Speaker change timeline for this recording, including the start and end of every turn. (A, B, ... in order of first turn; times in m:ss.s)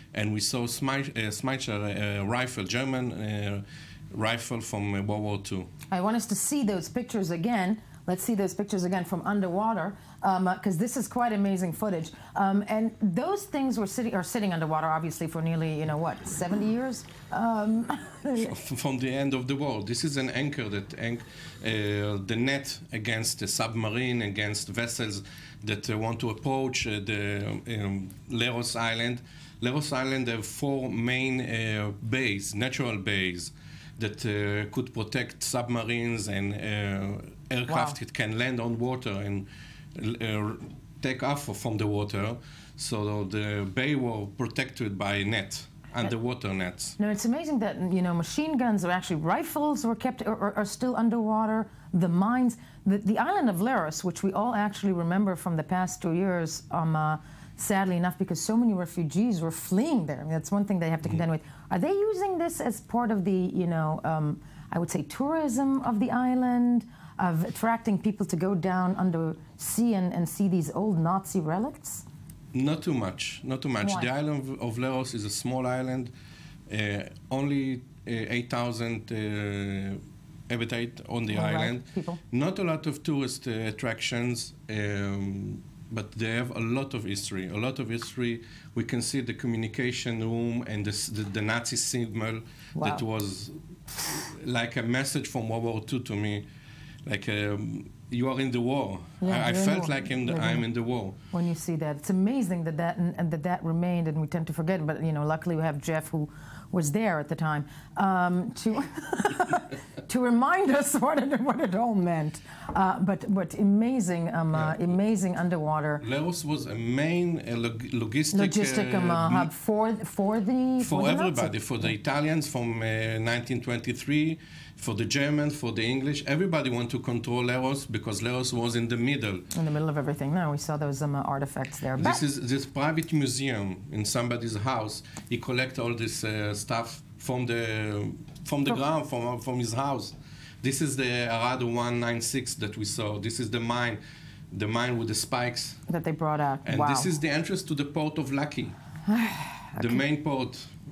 0:00.1-0:05.7 A
0:05.9-0:18.5 B
0:18.4-0:47.0 A
0:37.7-0:38.0 B
0:47.0-1:12.0 B
1:12.5-1:16.1 A
1:13.8-1:14.1 B
1:16.7-1:36.5 A
1:21.3-1:22.2 B
1:32.8-1:33.0 B
1:37.1-1:41.2 A
1:39.2-1:40.7 B
1:41.3-1:56.0 B
1:54.5-1:54.8 A
1:56.0-1:59.5 A
1:58.3-2:01.5 B
2:00.8-2:09.5 A
2:09.5-2:12.2 B
2:12.0-2:24.0 A
2:24.5-2:25.8 A
2:25.9-2:27.1 B
2:26.6-2:28.8 A
2:29.1-2:30.0 B
2:29.8-2:30.7 A